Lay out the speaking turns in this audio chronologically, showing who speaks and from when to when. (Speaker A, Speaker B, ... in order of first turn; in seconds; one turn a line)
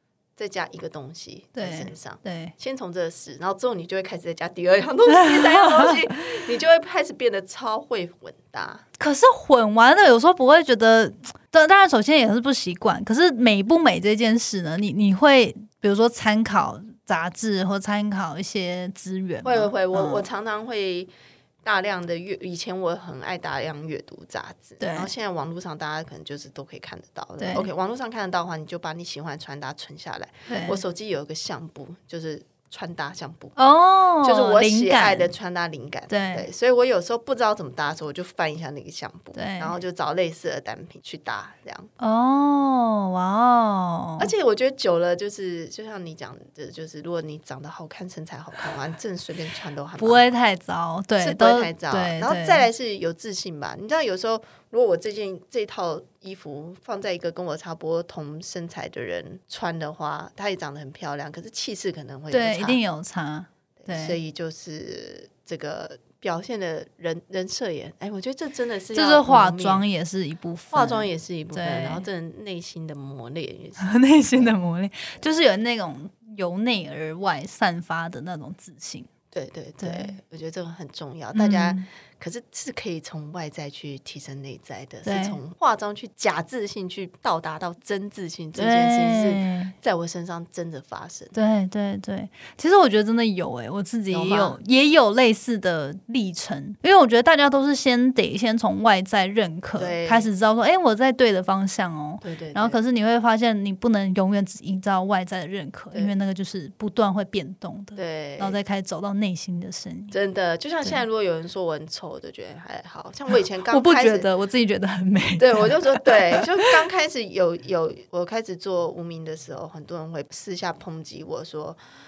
Speaker A: 0.4-8.8
Speaker B: 1.6-2.5
Speaker B: 5.1-6.0
Speaker B: 9.0-20.2
Speaker A: 19.4-21.1
Speaker A: 21.6-33.5
Speaker B: 24.8-25.1
Speaker B: 27.4-27.7
Speaker B: 30.5-30.8
Speaker B: 33.5-35.3
Speaker A: 34.2-41.9
Speaker B: 36.1-36.5
Speaker B: 39.3-39.7
Speaker B: 42.0-44.3
Speaker A: 44.2-50.3
Speaker B: 50.0-52.6
Speaker A: 51.2-62.8
Speaker B: 62.3-64.2
Speaker A: 63.8-69.8
Speaker B: 68.9-72.0
Speaker A: 70.7-74.5
Speaker B: 73.8-79.1
Speaker A: 79.3-91.3
Speaker B: 79.8-80.2
Speaker B: 81.3-81.9
Speaker B: 85.0-85.4
Speaker B: 88.5-89.7
Speaker B: 91.3-110.1
Speaker A: 94.1-94.6
Speaker A: 99.8-100.3
Speaker A: 102.2-102.8
Speaker A: 108.0-108.6
Speaker A: 110.1-114.3
Speaker B: 113.7-116.4
Speaker A: 115.4-121.8